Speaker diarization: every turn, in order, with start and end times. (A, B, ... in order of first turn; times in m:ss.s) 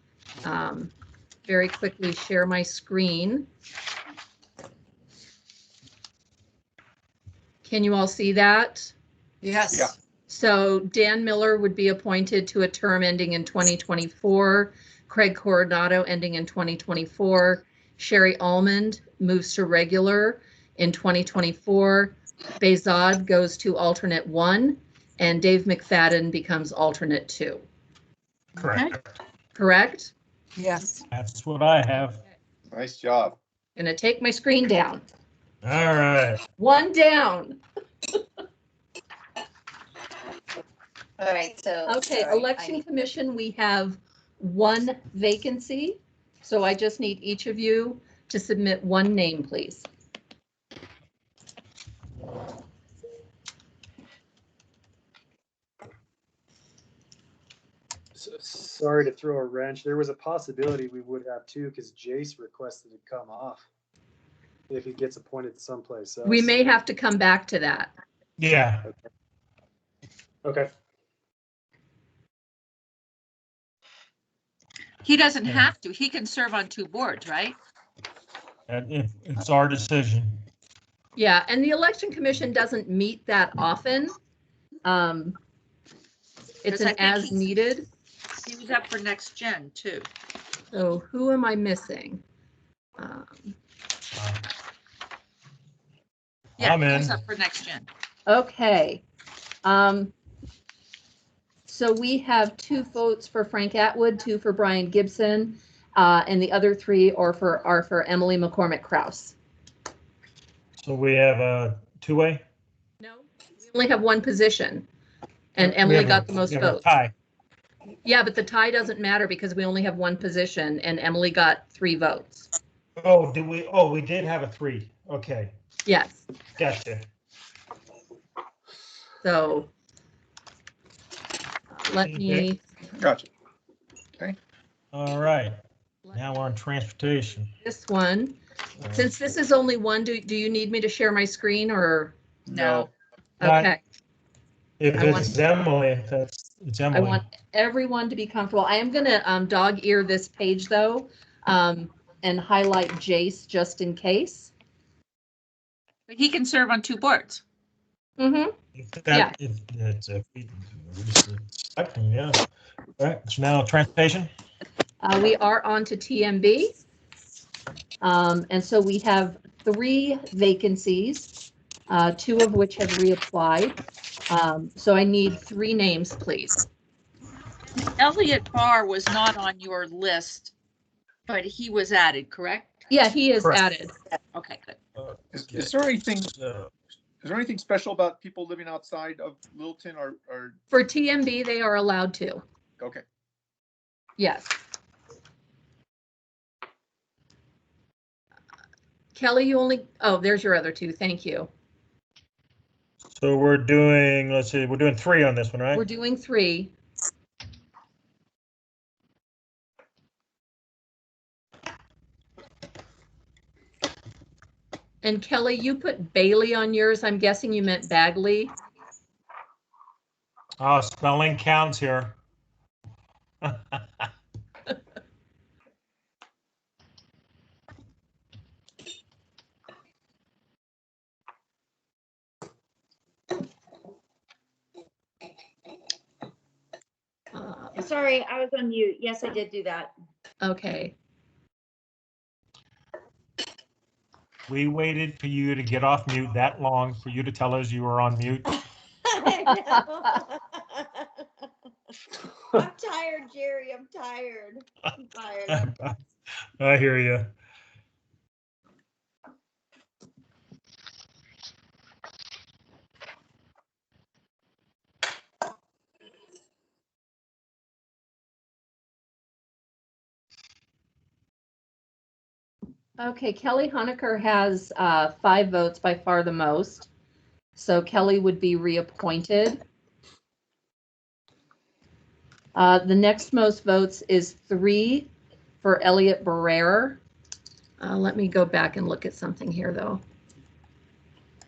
0:00.4-0:00.9 A
0:01.5-0:03.5 A
0:07.6-0:08.9 A
0:09.5-0:09.8 B
0:10.3-0:27.6 A
0:28.6-0:29.0 C
0:29.6-0:30.1 A
0:31.1-0:32.2 C
0:32.7-0:33.4 D
0:33.8-0:35.0 A
0:35.6-0:36.4 C
0:36.6-0:37.6 A
0:41.2-0:42.8 E
0:41.9-0:49.9 A
0:58.2-1:03.7 F
1:04.7-1:06.6 F
1:06.2-1:07.9 A
1:08.4-1:08.9 C
1:15.0-1:17.6 B
1:15.4-1:15.7 C
1:18.7-1:20.4 C
1:21.2-1:24.2 A
1:24.8-1:25.4 A
1:26.6-1:27.9 A
1:26.7-1:27.5 B
1:28.4-1:30.1 B
1:30.7-1:32.2 A
1:33.0-1:33.6 A
1:34.2-1:34.4 C
1:36.6-1:37.9 B
1:36.6-1:37.2 C
1:38.3-1:39.0 A
1:39.6-1:40.1 A
1:41.7-1:49.4 A
1:50.8-1:52.4 C
1:53.0-1:54.9 A
1:55.6-1:56.8 A
1:55.6-1:57.1 C
1:58.0-2:02.5 A
2:03.0-2:05.6 C
2:05.9-2:06.2 A
2:06.6-2:07.1 C
2:09.2-2:09.7 A
2:11.7-2:12.6 A
2:12.0-2:12.5 C
2:13.0-2:13.3 D
2:14.9-2:15.5 C
2:16.1-2:17.5 C
2:17.6-2:18.4 A
2:18.8-2:19.2 C
2:18.9-2:22.2 A
2:22.5-2:22.9 D
2:22.5-2:22.9 B
2:23.4-2:23.8 A
2:23.4-2:23.7 C
2:24.8-2:27.2 C
2:25.0-2:25.4 A
2:26.9-2:34.5 A
2:36.1-2:37.4 B
2:38.2-2:38.5 A
2:38.8-2:42.4 C
2:43.0-2:44.3 C
2:45.0-2:46.7 A
2:48.0-2:51.3 A
2:51.9-2:56.6 A
2:57.9-3:00.5 B
3:01.3-3:02.9 B
3:02.9-3:03.9 A
3:04.1-3:04.8 B
3:05.0-3:06.7 C
3:05.3-3:06.3 D
3:07.2-3:10.6 D
3:10.7-3:12.4 A
3:12.8-3:13.0 D
3:14.2-3:14.5 A
3:19.2-3:21.5 A
3:23.1-3:25.9 C
3:25.7-3:26.7 A
3:35.0-3:38.5 A
3:40.6-3:42.2 C
3:43.4-3:44.1 C
3:57.3-3:57.8 A
3:57.8-3:59.9 E
4:00.4-4:01.0 A
4:04.5-4:08.6 C
4:09.1-4:11.1 E
4:12.5-4:15.6 E
4:15.5-4:15.9 C
4:16.6-4:17.3 C
4:33.0-4:36.9 A
4:37.6-4:39.6 A
4:42.6-4:45.1 A
4:45.6-4:47.0 A
4:47.8-4:50.0 A